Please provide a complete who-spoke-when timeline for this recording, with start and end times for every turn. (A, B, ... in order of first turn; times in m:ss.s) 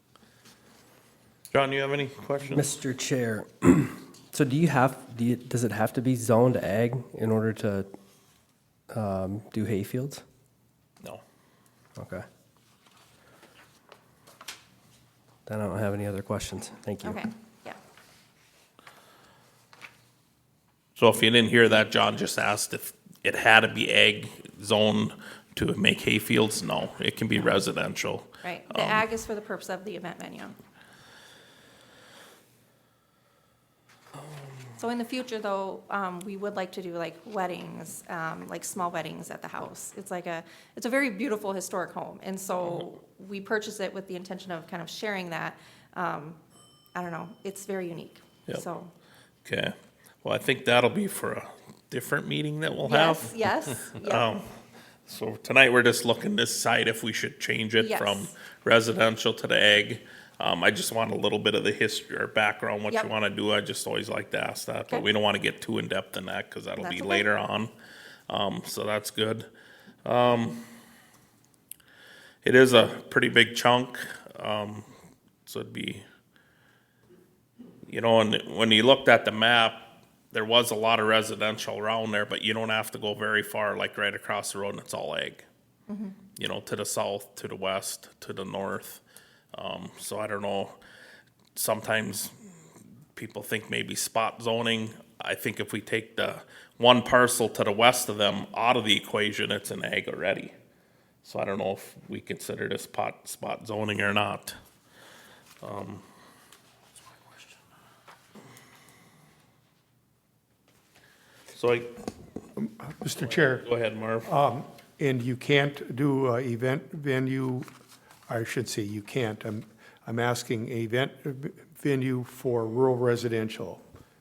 0:01.5-0:02.7 A
0:02.4-0:07.9 B
0:08.9-0:10.2 B
0:12.0-0:12.2 B
0:15.4-0:17.2 B
0:17.0-0:17.8 C
0:21.0-0:29.0 A
0:28.4-0:30.5 C
0:34.8-0:46.4 C
0:46.9-0:48.9 C
0:49.4-0:54.5 A
0:52.8-0:54.3 C
0:55.1-1:07.7 A
0:57.8-0:58.3 C
1:06.8-1:07.3 C
1:08.3-1:09.5 A
1:10.0-1:10.6 A
1:12.4-1:14.9 A
1:15.4-1:16.0 A
1:17.9-1:25.4 A
1:25.9-1:26.2 C
1:26.4-1:29.0 A
1:29.5-1:30.8 A
1:31.6-1:32.3 A
1:33.1-1:40.5 A
1:41.2-1:44.6 A
1:45.6-1:46.0 A
1:51.5-1:52.0 A
1:52.6-1:53.6 D
1:53.2-1:54.3 A
1:54.2-1:57.7 D
1:58.3-2:03.8 D